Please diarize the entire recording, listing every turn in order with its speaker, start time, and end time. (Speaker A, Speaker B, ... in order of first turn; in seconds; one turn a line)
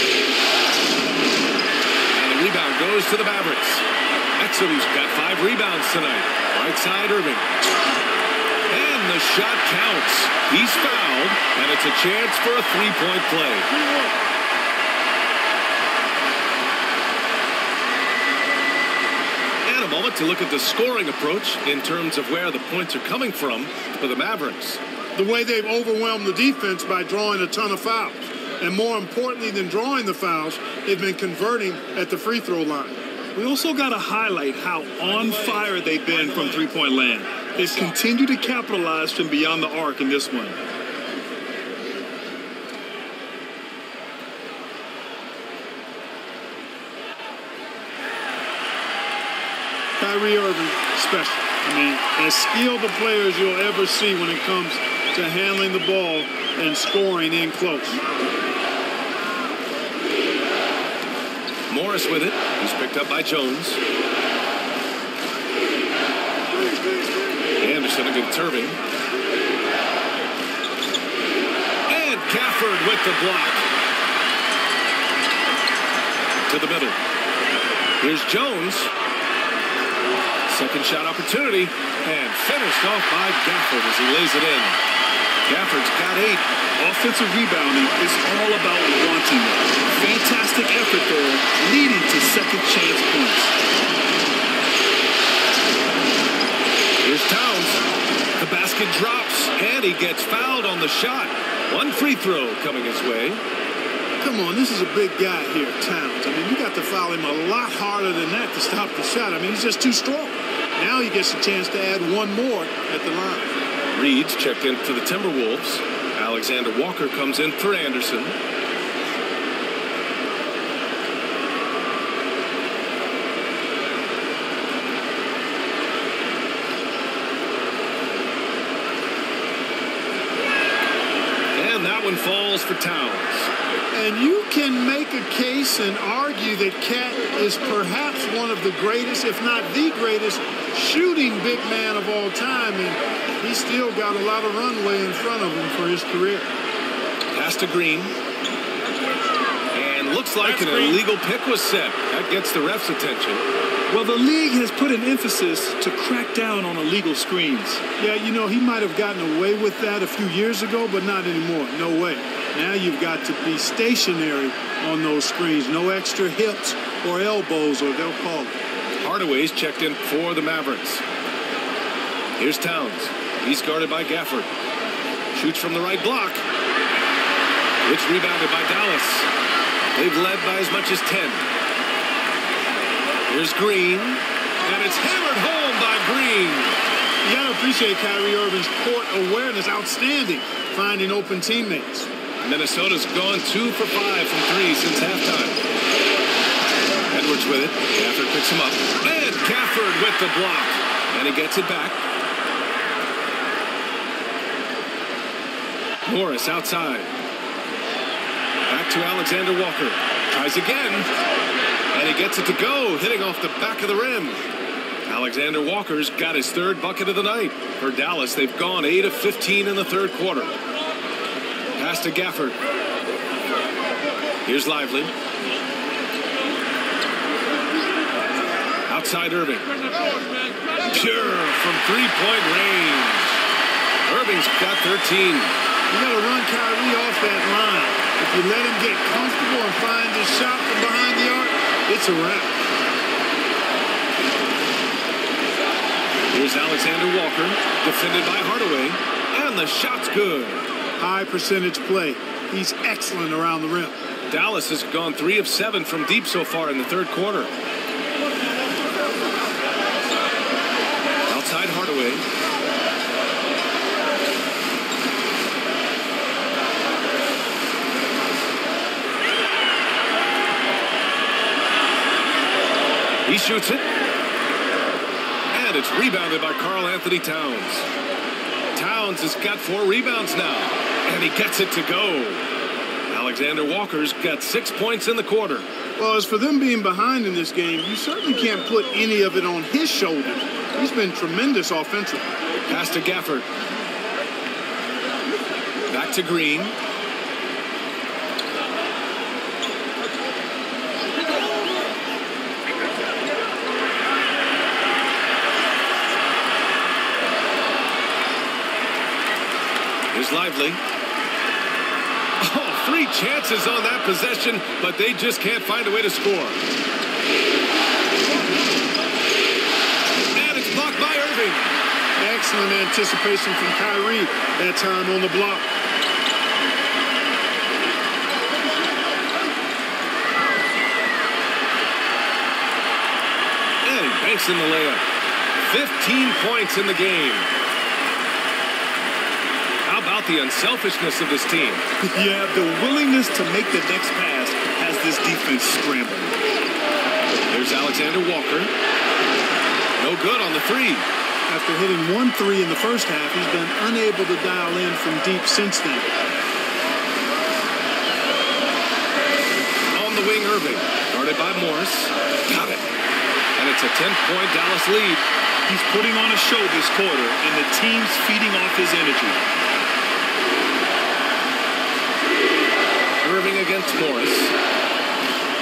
Speaker A: 2.1-3.9
Speaker A: 4.4-7.5
Speaker A: 8.7-13.7
Speaker A: 19.6-24.8
Speaker B: 25.1-33.0
Speaker C: 33.3-40.6
Speaker B: 50.0-58.0
Speaker A: 61.7-63.8
Speaker A: 67.6-68.8
Speaker A: 71.9-73.7
Speaker A: 76.5-77.0
Speaker A: 78.0-78.9
Speaker A: 80.5-84.8
Speaker A: 85.5-86.5
Speaker C: 86.8-93.5
Speaker A: 97.0-97.8
Speaker A: 98.3-103.4
Speaker B: 104.2-113.5
Speaker A: 113.9-118.3
Speaker A: 131.5-133.5
Speaker B: 133.9-146.5
Speaker A: 147.3-148.2
Speaker A: 149.7-153.4
Speaker C: 150.6-151.0
Speaker C: 153.9-157.8
Speaker B: 158.0-168.5
Speaker A: 169.0-171.0
Speaker A: 172.4-174.5
Speaker A: 175.3-176.4
Speaker A: 177.8-179.3
Speaker A: 179.9-181.4
Speaker A: 183.3-186.8
Speaker B: 187.2-192.1
Speaker A: 192.4-195.6
Speaker A: 197.1-202.0
Speaker A: 206.1-207.1
Speaker A: 208.7-211.1
Speaker A: 211.9-214.4
Speaker A: 215.1-220.5
Speaker A: 221.8-222.6
Speaker A: 224.4-225.1
Speaker A: 228.9-229.7
Speaker A: 230.8-233.4
Speaker A: 234.1-235.5
Speaker B: 235.9-242.6
Speaker A: 246.3-250.6
Speaker B: 251.0-254.0
Speaker A: 254.3-257.5
Speaker A: 261.3-262.2
Speaker A: 273.2-273.9
Speaker A: 275.5-277.9
Speaker A: 278.7-282.4
Speaker A: 283.1-285.6
Speaker B: 286.0-292.3
Speaker A: 292.7-293.5
Speaker A: 295.9-296.8
Speaker A: 310.1-310.8
Speaker A: 312.4-316.6
Speaker A: 320.3-321.7
Speaker B: 322.2-325.7
Speaker A: 333.8-335.0
Speaker A: 335.6-337.5
Speaker A: 339.8-341.8
Speaker C: 342.0-346.4
Speaker A: 347.5-348.7
Speaker A: 350.0-351.1
Speaker B: 351.5-356.1
Speaker A: 359.9-362.9
Speaker A: 363.6-365.2
Speaker C: 365.7-369.4
Speaker A: 373.2-374.5